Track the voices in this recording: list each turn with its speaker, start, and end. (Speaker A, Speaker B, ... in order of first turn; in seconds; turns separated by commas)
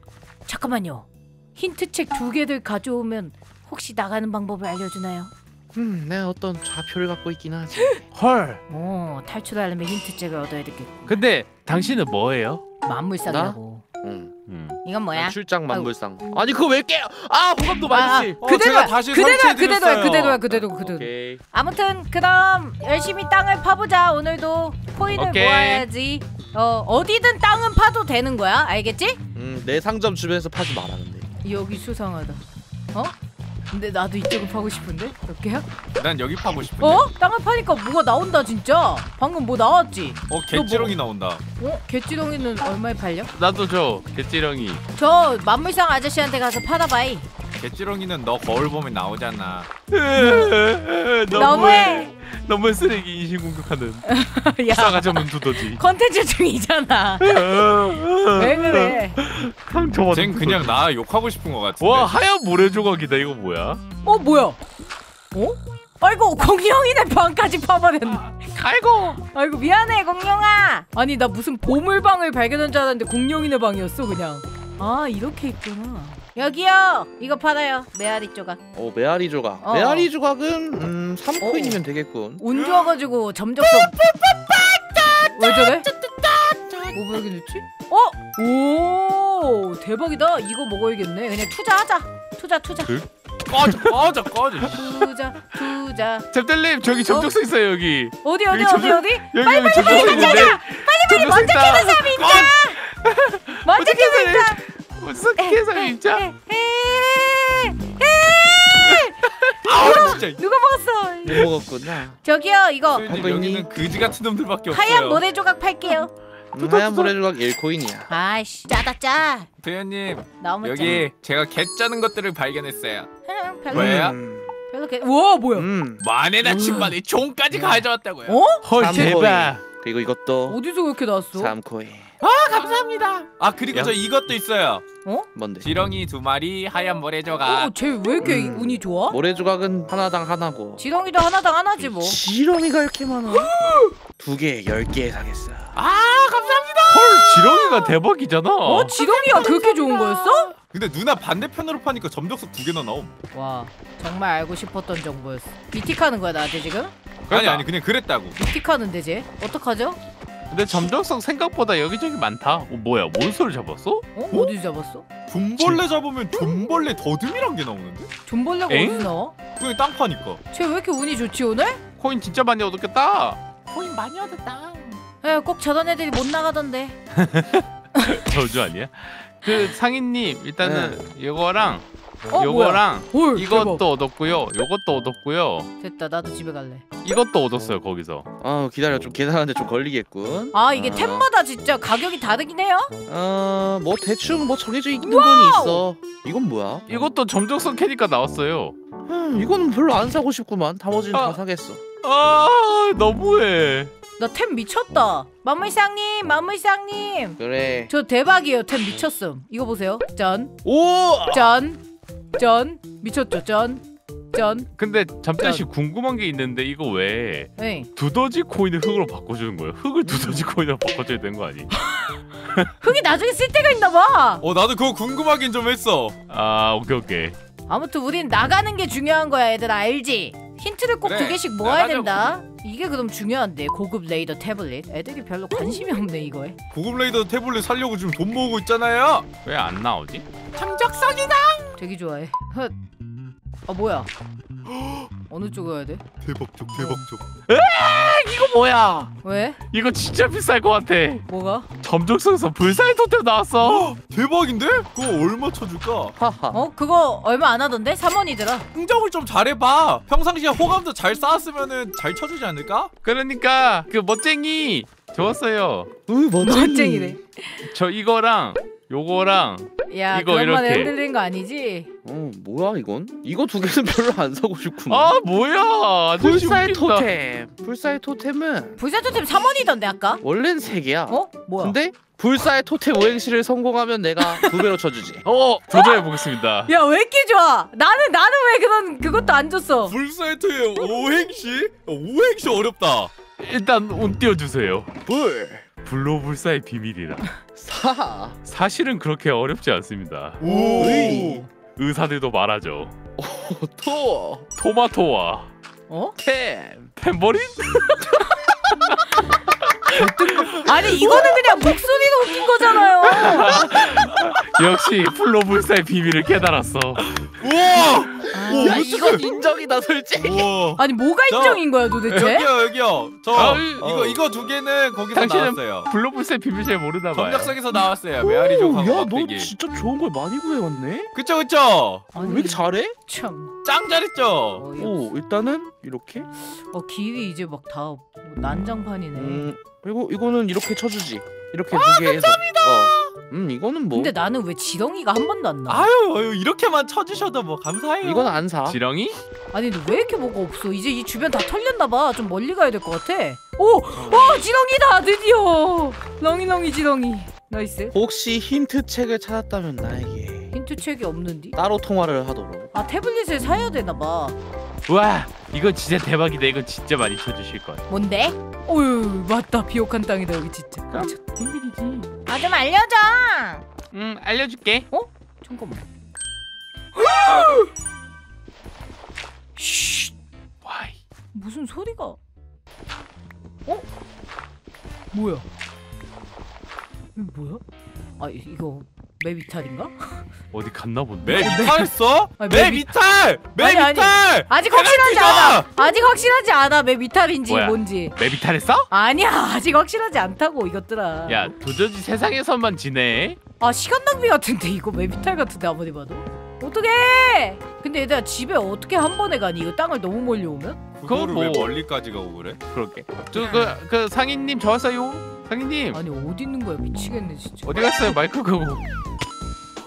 Speaker A: 0.5-5.3, Speaker B: 5.7-8.1, Speaker C: 8.1-8.6, Speaker A: 8.7-10.9, Speaker C: 11.1-12.6, Speaker A: 12.8-13.8, Speaker B: 13.2-14.3, Speaker C: 14.5-14.8, Speaker A: 14.8-15.9, Speaker B: 15.1-18.4, Speaker A: 17.9-29.2, Speaker D: 18.4-20.4, Speaker B: 20.5-21.4, Speaker C: 25.1-25.9, Speaker B: 29.3-31.3, Speaker A: 31.4-33.1, Speaker A: 33.7-35.7, Speaker D: 36.0-37.1, Speaker A: 36.8-41.0, Speaker D: 40.3-41.4, Speaker A: 41.6-43.3, Speaker C: 43.3-44.8, Speaker A: 45.0-47.3, Speaker D: 47.6-49.7, Speaker C: 49.9-54.0, Speaker A: 50.1-50.5, Speaker D: 51.3-52.0, Speaker A: 51.3-52.1, Speaker A: 54.0-57.7, Speaker C: 54.7-55.8, Speaker C: 57.2-60.8, Speaker A: 58.3-59.2, Speaker D: 60.1-62.1, Speaker C: 61.8-63.8, Speaker A: 64.0-64.6, Speaker A: 65.3-68.2, Speaker C: 68.0-69.2, Speaker A: 69.2-78.6, Speaker B: 78.7-82.4, Speaker A: 79.6-80.1, Speaker A: 81.4-81.8, Speaker A: 82.4-84.0, Speaker B: 84.5-86.9, Speaker A: 85.3-85.9, Speaker A: 86.9-93.0, Speaker D: 93.5-94.8, Speaker C: 93.6-94.0, Speaker A: 94.7-96.2, Speaker C: 96.3-106.2, Speaker A: 98.2-102.8, Speaker D: 99.8-100.5, Speaker A: 103.6-104.6, Speaker A: 105.4-111.5, Speaker D: 109.6-110.4, Speaker B: 111.2-112.2, Speaker A: 112.2-113.1, Speaker D: 112.9-115.2, Speaker B: 113.0-113.7, Speaker A: 114.7-116.1, Speaker B: 116.5-118.1, Speaker D: 116.6-117.1, Speaker A: 118.1-119.5, Speaker D: 119.6-123.1, Speaker A: 120.4-121.0, Speaker A: 123.3-124.1, Speaker D: 123.7-124.2, Speaker B: 123.7-124.5, Speaker A: 124.7-125.7, Speaker B: 125.5-126.0, Speaker D: 126.0-128.4, Speaker C: 126.5-126.9, Speaker A: 128.3-129.1, Speaker C: 128.6-129.6, Speaker B: 128.8-130.6, Speaker A: 130.5-131.5, Speaker B: 131.3-132.2, Speaker D: 132.2-134.8, Speaker B: 135.3-135.7, Speaker D: 135.6-137.7, Speaker A: 137.4-139.2, Speaker B: 138.2-140.8, Speaker A: 140.8-142.2, Speaker B: 141.8-143.7, Speaker A: 143.3-143.9, Speaker B: 144.2-145.8, Speaker D: 145.8-147.4, Speaker C: 146.9-149.2, Speaker A: 147.3-147.9, Speaker A: 148.6-150.5, Speaker D: 150.7-153.1, Speaker A: 153.3-156.9, Speaker C: 157.3-157.7, Speaker D: 157.3-158.4, Speaker A: 158.3-160.0, Speaker C: 160.5-164.1, Speaker A: 164.1-165.1, Speaker D: 165.3-168.1, Speaker A: 168.2-169.3, Speaker C: 168.7-169.1, Speaker D: 169.5-170.4, Speaker A: 170.5-171.8, Speaker C: 172.0-174.8, Speaker D: 173.7-174.5, Speaker A: 175.2-177.0, Speaker C: 177.1-185.7, Speaker B: 180.6-181.0, Speaker A: 182.3-183.8, Speaker A: 185.8-186.8, Speaker C: 187.0-188.3, Speaker B: 188.4-191.3, Speaker A: 190.5-192.9, Speaker B: 193.1-196.8, Speaker A: 195.0-195.8, Speaker C: 196.9-198.7, Speaker B: 199.1-201.8, Speaker C: 201.1-201.4, Speaker C: 202.0-203.9, Speaker A: 204.2-210.6, Speaker B: 207.4-207.9, Speaker B: 210.6-211.5, Speaker A: 211.3-211.8, Speaker A: 212.4-214.7, Speaker C: 214.8-221.8, Speaker A: 215.4-215.7, Speaker A: 217.6-217.9, Speaker B: 220.0-220.4, Speaker A: 221.8-222.2, Speaker A: 222.8-224.4, Speaker D: 224.4-226.2, Speaker C: 226.3-227.3, Speaker A: 227.7-236.6, Speaker D: 231.0-232.2, Speaker D: 236.7-239.3, Speaker C: 239.4-240.2, Speaker D: 240.6-241.0, Speaker A: 241.7-242.8, Speaker A: 243.7-244.1, Speaker D: 244.7-245.1, Speaker A: 245.3-246.0, Speaker D: 246.2-247.2, Speaker C: 247.5-249.1, Speaker A: 249.2-249.6, Speaker C: 249.7-251.2, Speaker A: 251.3-251.7, Speaker C: 251.8-253.9, Speaker D: 253.6-256.2, Speaker B: 256.2-256.7, Speaker A: 256.5-258.7, Speaker D: 258.7-262.9, Speaker C: 263.0-265.9, Speaker B: 266.1-267.2, Speaker A: 266.4-267.6, Speaker C: 267.6-270.9, Speaker A: 269.9-271.9, Speaker B: 272.0-275.1, Speaker C: 274.9-277.1, Speaker B: 276.2-278.8, Speaker A: 278.8-280.2, Speaker B: 280.2-285.2, Speaker A: 281.1-281.8, Speaker A: 284.2-284.5, Speaker C: 285.2-286.7, Speaker A: 285.7-289.9, Speaker D: 289.9-293.1, Speaker C: 293.4-294.9, Speaker B: 295.1-295.6, Speaker C: 295.8-297.3, Speaker B: 297.6-298.4, Speaker C: 298.4-301.2, Speaker D: 300.4-301.4, Speaker A: 300.5-301.5, Speaker B: 300.5-301.4, Speaker C: 301.8-302.9, Speaker B: 303.2-304.5, Speaker C: 304.6-305.5, Speaker A: 305.9-306.2, Speaker B: 306.2-306.9, Speaker C: 307.0-308.2, Speaker A: 309.9-313.6, Speaker B: 310.8-311.2, Speaker C: 313.1-317.3, Speaker D: 317.2-319.2, Speaker A: 318.3-319.2, Speaker B: 318.4-320.5, Speaker D: 320.2-325.9, Speaker A: 320.8-322.5, Speaker C: 323.3-323.8, Speaker B: 323.8-324.2, Speaker C: 325.1-327.5, Speaker D: 327.1-329.5, Speaker B: 328.2-331.1, Speaker D: 331.1-332.1, Speaker A: 332.1-333.5, Speaker B: 332.2-332.9, Speaker D: 333.6-334.7, Speaker A: 334.6-335.1, Speaker B: 334.8-336.3, Speaker A: 336.7-339.4, Speaker B: 339.1-344.1, Speaker D: 341.7-343.1, Speaker A: 343.9-345.9, Speaker D: 345.7-348.4, Speaker B: 348.0-348.8, Speaker C: 348.6-349.2, Speaker A: 349.5-357.9, Speaker B: 353.9-354.4, Speaker B: 357.9-360.5, Speaker A: 360.5-361.6, Speaker B: 361.5-362.7, Speaker A: 362.7-364.3, Speaker C: 364.9-367.8, Speaker A: 367.9-371.4, Speaker C: 370.9-372.0, Speaker A: 372.0-373.6, Speaker C: 373.9-374.9, Speaker A: 374.9-375.9, Speaker A: 376.9-377.7, Speaker A: 379.6-380.1, Speaker C: 380.6-381.0, Speaker A: 381.3-382.2, Speaker A: 385.1-385.4, Speaker A: 387.1-387.6, Speaker A: 388.2-390.2, Speaker C: 390.5-391.8, Speaker D: 391.2-395.7, Speaker A: 391.4-391.9, Speaker A: 392.4-392.9, Speaker A: 393.6-398.1, Speaker C: 397.5-398.9, Speaker A: 398.9-401.5, Speaker C: 401.3-403.4, Speaker A: 403.6-410.8, Speaker D: 411.0-412.6, Speaker C: 411.1-411.7, Speaker C: 412.7-416.0, Speaker A: 415.9-417.7, Speaker C: 417.6-418.8